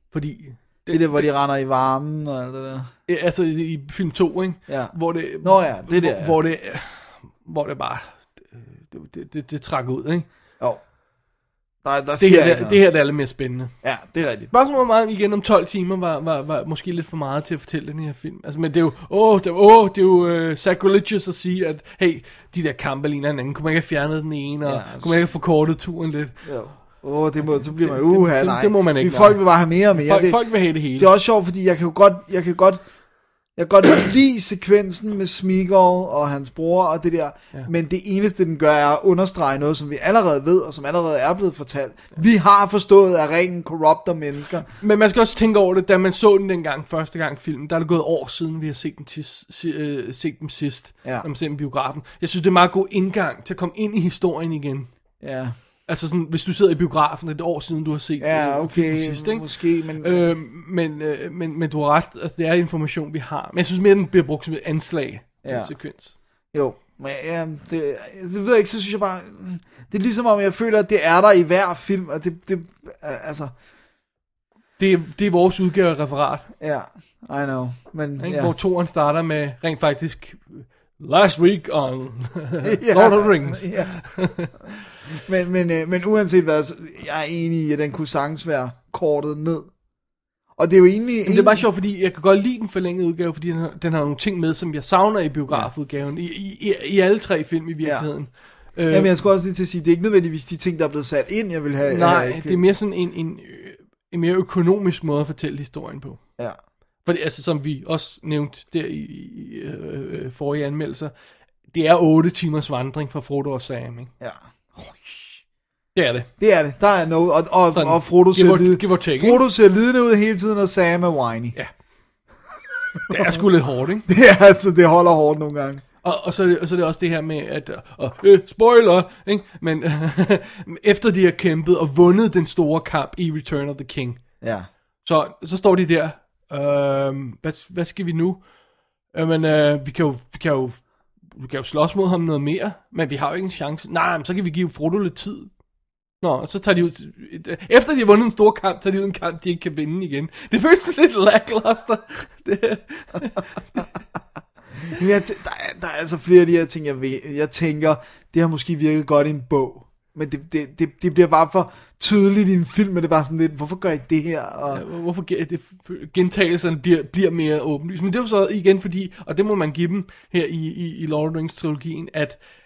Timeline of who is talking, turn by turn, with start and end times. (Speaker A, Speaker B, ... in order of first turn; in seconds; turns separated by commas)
Speaker A: 0.1-1.3, Speaker B: 0.9-2.9, Speaker A: 3.1-10.3, Speaker B: 4.7-6.4, Speaker B: 11.8-12.8, Speaker A: 12.2-13.7, Speaker B: 13.8-14.5, Speaker A: 14.5-31.1, Speaker B: 24.6-25.3, Speaker B: 26.4-32.8, Speaker B: 33.5-44.7, Speaker A: 44.8-54.9, Speaker B: 55.2-55.5, Speaker A: 55.9-66.2, Speaker B: 58.2-60.3, Speaker B: 65.4-65.8, Speaker B: 66.5-73.5, Speaker A: 74.8-76.5, Speaker B: 76.6-78.5, Speaker A: 78.2-84.5, Speaker B: 82.6-84.0, Speaker B: 85.1-89.7, Speaker B: 90.6-91.6, Speaker A: 91.2-99.1, Speaker B: 97.8-102.6, Speaker A: 101.9-106.3, Speaker A: 107.0-111.1, Speaker A: 111.7-114.1, Speaker B: 114.2-115.4, Speaker A: 116.0-116.3, Speaker B: 116.4-121.5, Speaker A: 117.7-119.4, Speaker A: 123.1-124.1, Speaker B: 124.1-125.8, Speaker A: 126.0-134.2, Speaker B: 134.4-134.7, Speaker A: 135.0-138.5, Speaker A: 139.1-145.5, Speaker A: 146.2-153.6, Speaker B: 154.9-164.8, Speaker A: 164.7-172.4